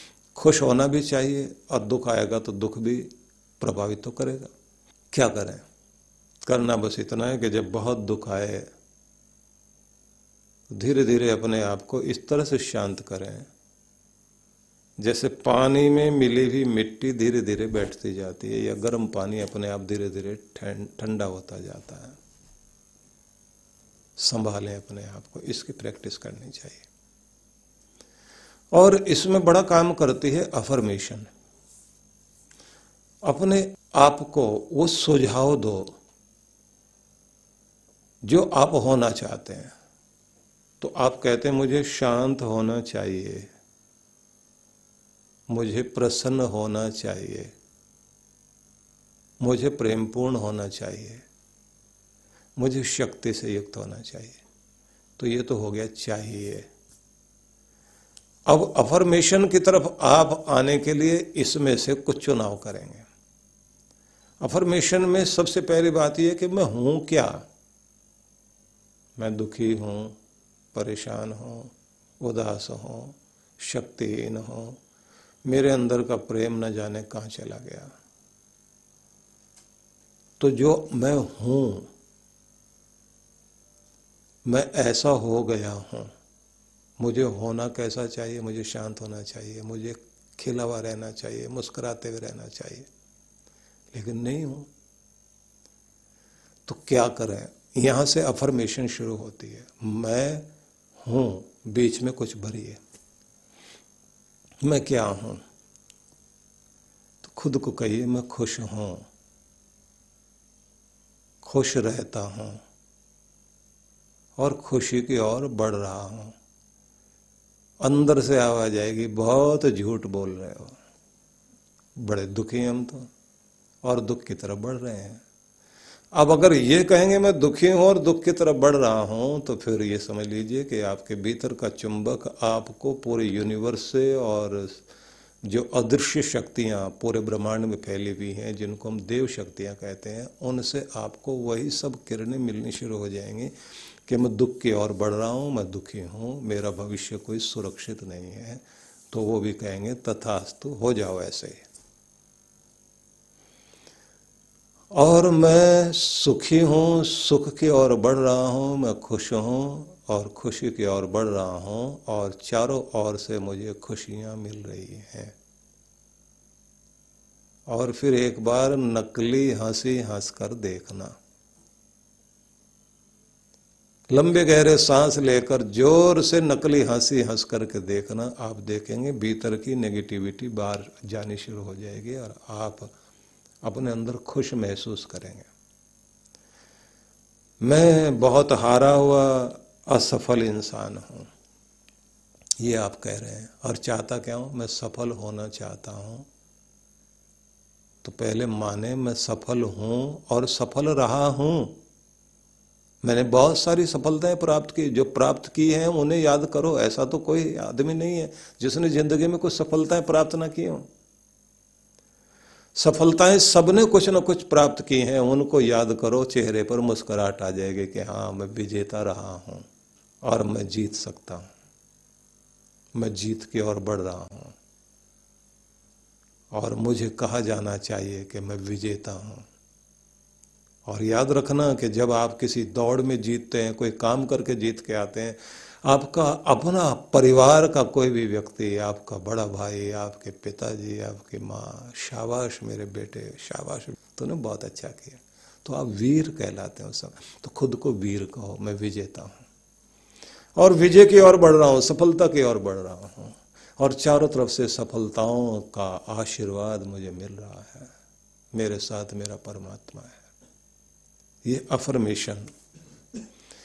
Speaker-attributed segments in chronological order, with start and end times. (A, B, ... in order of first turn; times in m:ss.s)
0:00.3-0:04.5 A
0:05.1-0:05.6 A
0:06.4-0:08.6 A
0:10.7-0:13.5 A
0:15.0-0:22.2 A
0:24.2-0:26.8 A
0:28.7-0:31.3 A
0:33.2-0:35.9 A
0:38.2-0:39.7 A
0:40.8-0:43.5 A
0:45.5-0:47.5 A
0:49.4-0:51.2 A
0:52.6-0:54.4 A
0:55.2-0:56.6 A
0:58.4-1:03.1 A
1:04.4-1:07.4 A
1:09.2-1:10.2 A
1:10.7-1:14.8 A
1:15.4-1:17.9 A
1:20.4-1:21.9 A
1:24.4-1:26.1 A
1:27.0-1:32.9 A
1:33.9-1:34.7 A
1:36.6-1:40.5 A
1:41.0-1:42.8 A
1:44.6-1:45.4 A
1:47.2-1:49.0 A
1:51.4-1:52.6 A
1:54.4-1:56.3 A
1:57.8-2:00.7 A
2:02.0-2:03.1 A
2:03.8-2:05.2 A
2:06.1-2:14.8 A
2:15.4-2:23.5 A
2:24.0-2:31.6 A
2:34.9-2:45.3 A
2:47.7-2:51.1 A
2:54.1-3:02.9 A
3:03.6-3:05.5 A
3:07.6-3:11.3 A
3:12.6-3:16.2 A
3:18.0-3:21.7 A
3:23.0-3:30.9 A
3:32.8-3:39.6 A
3:40.2-3:41.5 A
3:43.0-3:44.6 A
3:46.5-3:49.4 A
3:50.8-4:09.4 A
4:10.6-4:17.9 A
4:18.5-4:20.2 A
4:21.4-4:22.4 A